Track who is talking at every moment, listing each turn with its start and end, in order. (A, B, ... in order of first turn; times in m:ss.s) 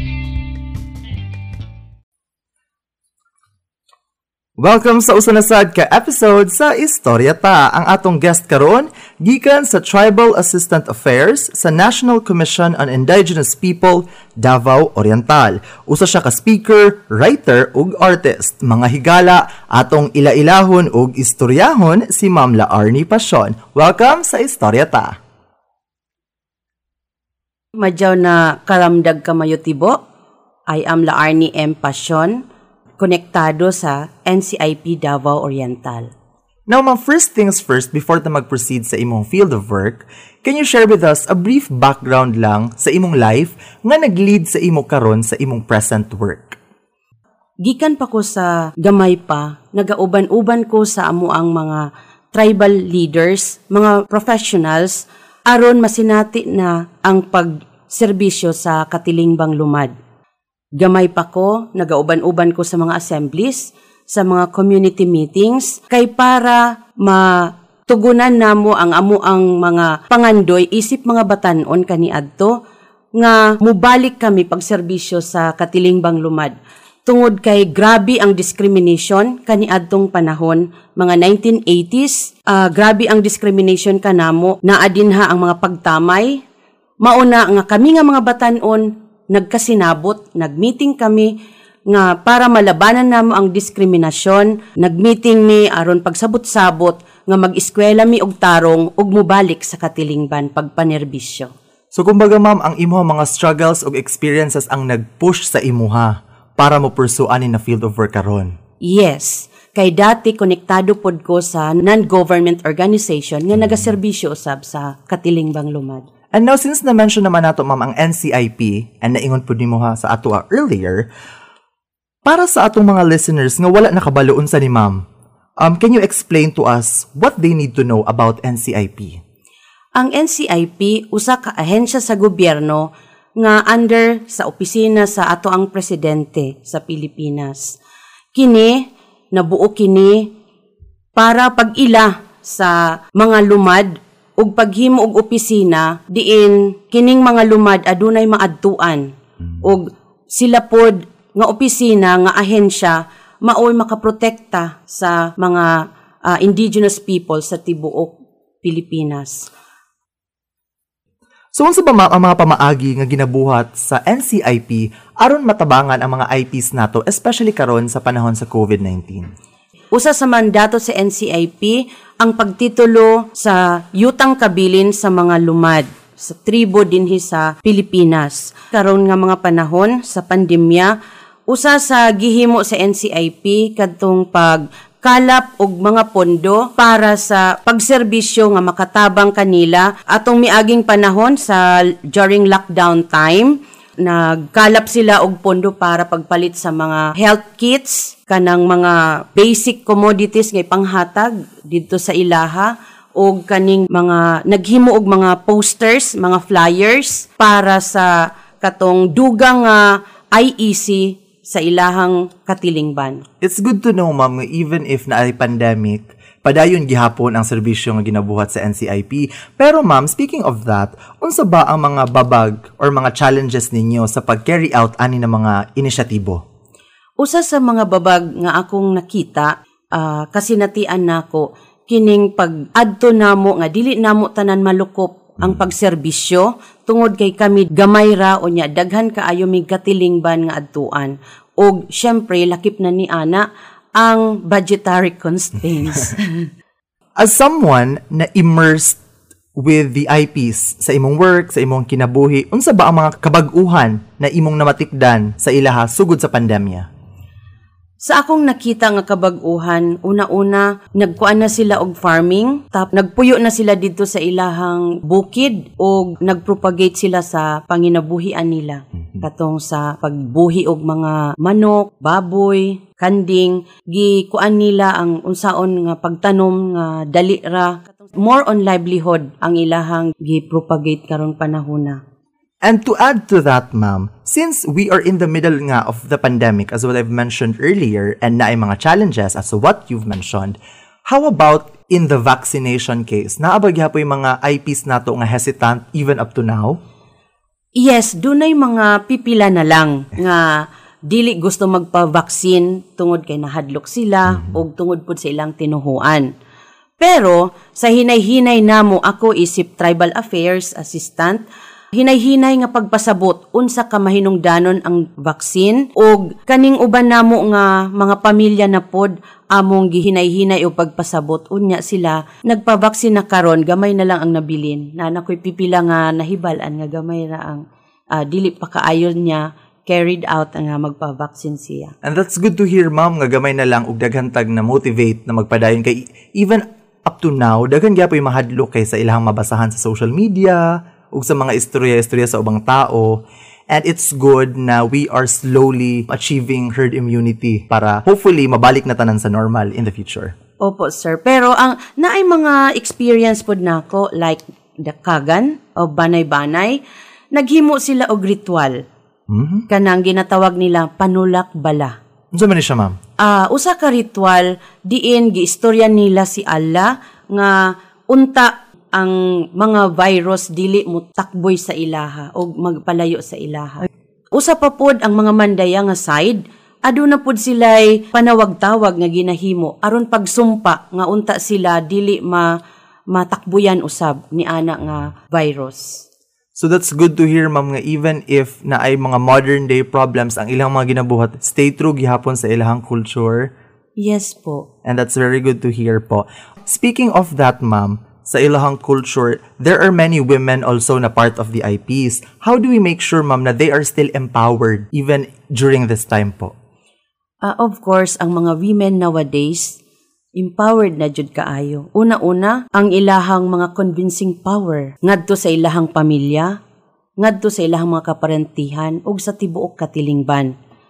0:04.6-0:25.2 A
0:27.8-0:30.0 B
0:30.7-0:32.4 B
0:33.0-0:36.1 B
0:36.7-0:46.6 A
0:47.6-0:51.8 B
0:52.3-0:59.9 B
1:00.8-1:07.2 B
1:07.9-1:12.5 B
1:13.2-1:16.5 B
1:17.0-1:26.4 B
1:27.0-1:31.3 B
1:31.9-1:41.5 B
1:41.9-1:48.5 A
1:48.8-1:56.0 B
1:56.3-2:01.0 A
2:02.2-2:05.0 A
2:05.6-2:09.2 A
2:10.0-2:12.8 B
2:13.4-2:17.8 B
2:18.3-2:18.8 B
2:19.3-2:20.3 B
2:21.2-2:29.1 B
2:29.6-2:35.7 B
2:36.3-2:39.5 B
2:41.5-2:49.3 A
2:49.9-3:00.9 B
3:01.5-3:33.2 B
3:33.4-3:46.4 A
3:47.2-4:03.4 B
4:04.0-4:06.5 B
4:07.2-4:09.0 A
4:09.6-4:16.9 A
4:18.0-4:42.0 B
4:42.6-4:50.6 A
4:51.1-4:56.8 A
4:57.8-5:06.3 B
5:07.0-5:11.4 B
5:12.0-5:27.6 B
5:28.1-5:31.9 B
5:32.0-5:50.3 A
5:50.6-5:56.8 B
5:57.3-5:58.8 B
5:59.3-5:59.6 A
5:59.7-6:01.9 B
6:02.3-6:03.0 A
6:03.2-6:07.6 B
6:08.1-6:22.5 B
6:23.1-6:26.0 B
6:26.6-6:33.5 A
6:34.0-6:34.7 B
6:34.8-6:46.5 A
6:47.4-6:49.8 B
6:50.4-6:56.5 B
6:57.2-7:00.5 B